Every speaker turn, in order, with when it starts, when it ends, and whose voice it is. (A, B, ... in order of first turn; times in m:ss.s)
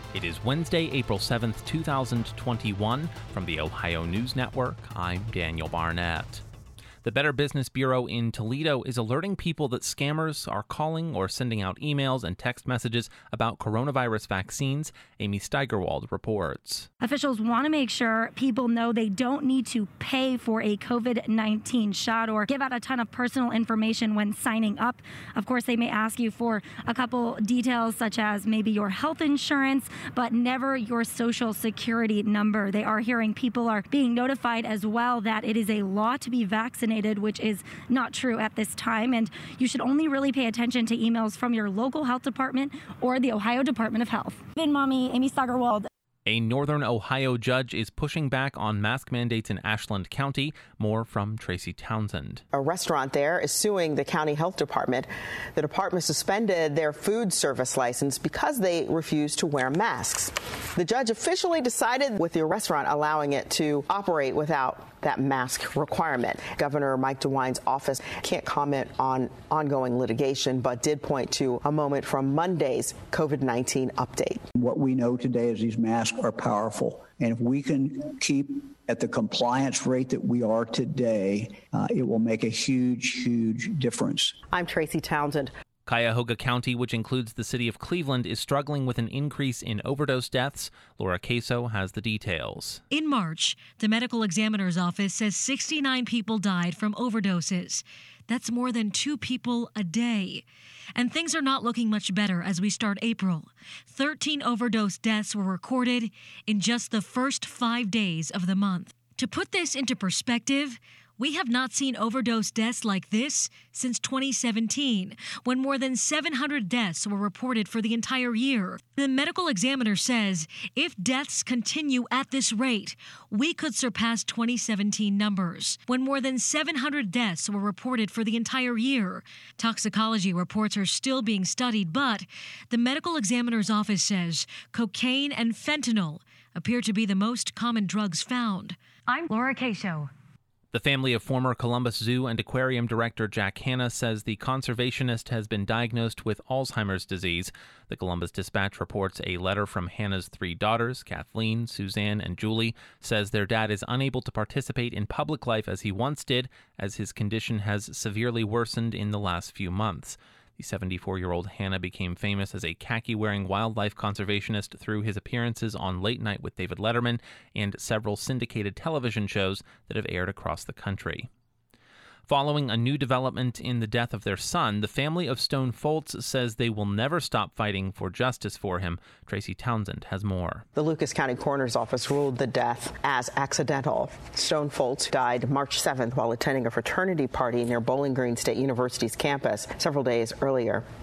0:00.1-0:06.4 A
0:07.0-0:16.9 A
0:17.0-0:45.9 B
0:46.3-0:52.4 A
0:52.5-1:14.4 C
1:14.6-1:24.4 D
1:24.5-1:25.5 C
1:25.9-1:32.8 A
1:32.9-1:40.4 E
1:41.0-2:20.1 E
2:20.7-2:51.3 A
2:52.3-3:00.6 A
3:00.8-3:10.8 C